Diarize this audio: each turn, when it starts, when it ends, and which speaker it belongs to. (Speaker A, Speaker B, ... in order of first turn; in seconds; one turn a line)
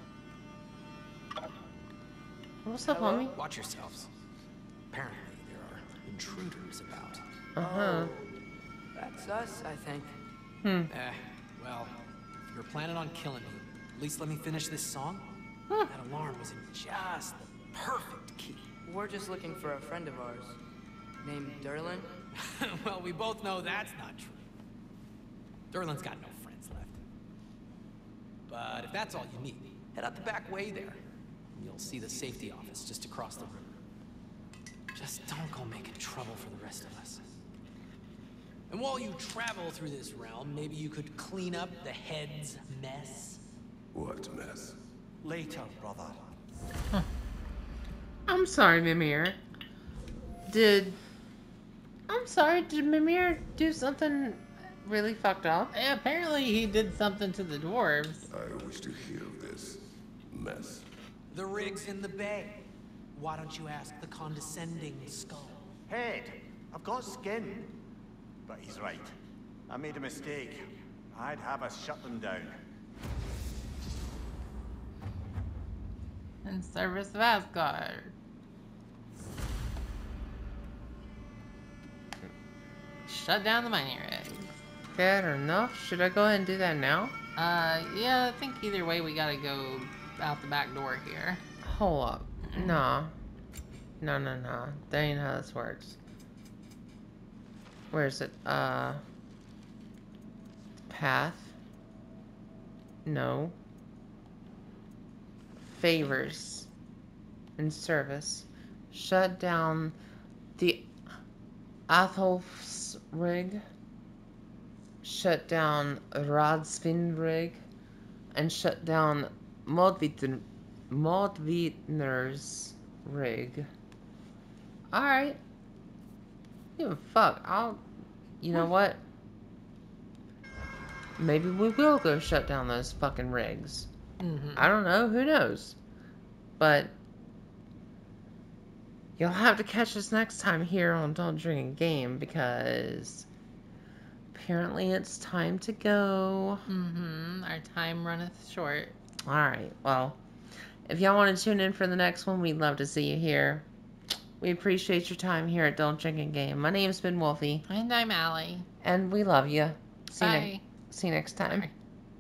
Speaker A: 2.6-3.4
Speaker B: 3.3-4.1
Speaker B: 4.9-7.2
Speaker A: 7.6-8.1
Speaker C: 7.6-8.3
Speaker C: 8.9-10.2
Speaker A: 10.6-10.9
Speaker B: 10.9-11.9
Speaker B: 12.5-15.3
Speaker B: 15.9-18.6
Speaker C: 18.8-20.6
Speaker C: 21.2-22.2
Speaker B: 22.3-24.4
Speaker B: 25.7-27.0
Speaker B: 28.5-31.0
Speaker B: 31.5-33.7
Speaker B: 34.9-37.2
Speaker B: 38.7-43.4
Speaker D: 43.9-44.8
Speaker E: 45.2-46.2
Speaker A: 48.3-49.4
Speaker A: 50.5-51.0
Speaker A: 52.1-55.8
Speaker F: 55.7-58.3
Speaker D: 58.3-60.9
Speaker B: 61.3-62.6
Speaker B: 63.1-65.6
Speaker E: 65.9-67.7
Speaker E: 68.5-69.2
Speaker E: 69.7-72.6
Speaker F: 76.4-78.1
Speaker F: 83.1-84.6
Speaker A: 85.0-87.2
Speaker F: 87.4-91.4
Speaker A: 91.6-93.1
Speaker F: 92.5-92.8
Speaker A: 94.0-96.0
Speaker A: 97.9-99.0
Speaker A: 100.9-101.6
Speaker A: 103.1-103.6
Speaker A: 105.6-106.7
Speaker A: 107.6-110.0
Speaker A: 110.6-110.9
Speaker A: 111.9-113.6
Speaker A: 115.0-117.6
Speaker A: 118.3-123.7
Speaker A: 124.9-125.4
Speaker A: 126.8-127.8
Speaker A: 128.4-129.0
Speaker A: 131.2-133.9
Speaker F: 134.2-134.7
Speaker A: 134.6-135.8
Speaker A: 136.6-137.0
Speaker A: 139.2-143.3
Speaker A: 144.3-146.7
Speaker F: 146.7-149.0
Speaker A: 149.3-150.2
Speaker A: 150.9-153.7
Speaker A: 154.4-157.7
Speaker F: 157.7-158.7
Speaker A: 158.8-161.7
Speaker F: 160.2-160.6
Speaker F: 161.4-161.7